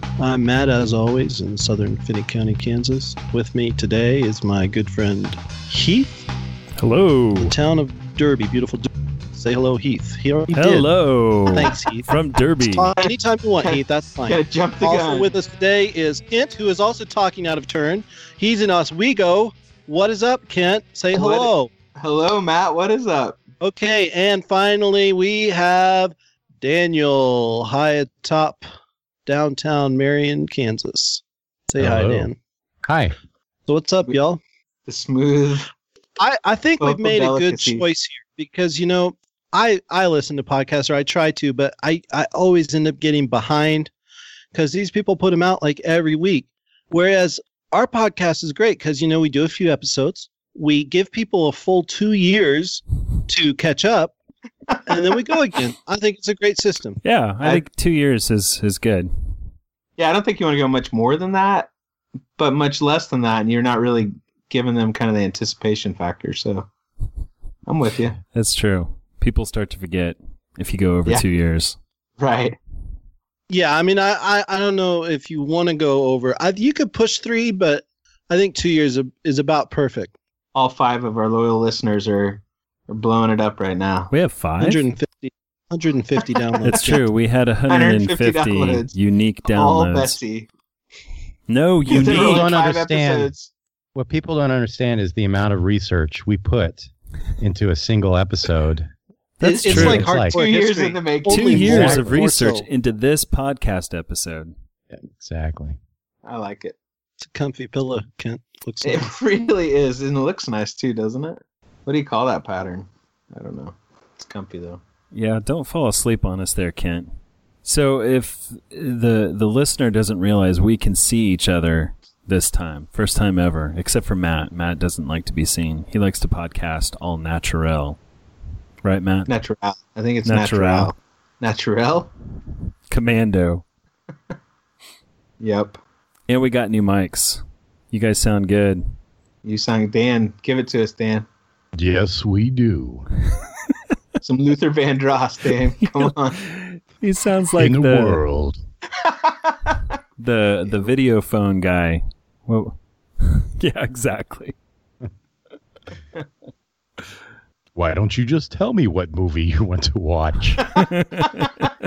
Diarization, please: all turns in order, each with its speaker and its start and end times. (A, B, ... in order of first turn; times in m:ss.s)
0:00.2-0:06.3 A
0:06.8-0:07.5 B
0:07.3-0:10.9 A
0:10.5-0:12.9 B
0:11.5-0:12.1 A
0:12.6-0:21.7 A
0:13.0-0:15.3 C
0:21.1-0:23.4 C
0:23.6-0:28.6 A
0:29.2-0:32.4 A
0:31.8-0:32.3 D
0:32.8-0:33.1 D
0:33.7-0:34.4 A
0:34.8-0:35.7 C
0:36.2-0:43.9 A
0:36.8-0:37.8 C
0:44.5-0:54.1 A
0:54.8-0:57.0 A
0:57.0-0:59.1 B
1:00.0-1:01.7 C
1:02.4-1:06.7 C
1:07.6-1:08.2 C
1:08.3-1:11.8 B
1:12.2-1:12.6 C
1:13.5-1:20.1 A
1:20.5-1:24.1 C
1:24.1-1:24.8 B
1:24.6-1:27.0 A
1:26.6-1:30.2 B
1:27.7-1:28.9 C
1:29.5-1:30.5 C
1:31.5-1:32.5 B
1:31.9-1:33.5 C
1:31.9-1:33.3 D
1:33.9-1:38.9 D
1:39.4-1:40.1 B
1:39.4-1:42.7 A
1:39.7-1:40.4 D
1:40.2-1:41.9 C
1:41.3-1:44.5 B
1:41.7-1:42.1 D
1:44.9-1:45.8 D
1:46.2-1:46.8 C
1:47.2-1:49.1 A
1:48.8-1:54.8 C
1:55.1-1:57.1 B
1:57.6-2:08.0 B
2:08.8-2:09.3 B
2:09.3-2:12.1 C
2:10.2-2:10.9 B
2:12.9-2:13.6 B
2:15.4-2:15.8 C
2:16.3-2:18.8 B
2:19.4-2:21.2 C
2:21.8-2:23.0 D
2:24.2-2:26.4 C
2:25.8-2:28.2 B
2:27.6-2:28.6 D
2:29.0-2:29.8 C
2:30.2-2:34.5 B
2:37.8-2:40.6 D
2:40.7-2:41.7 B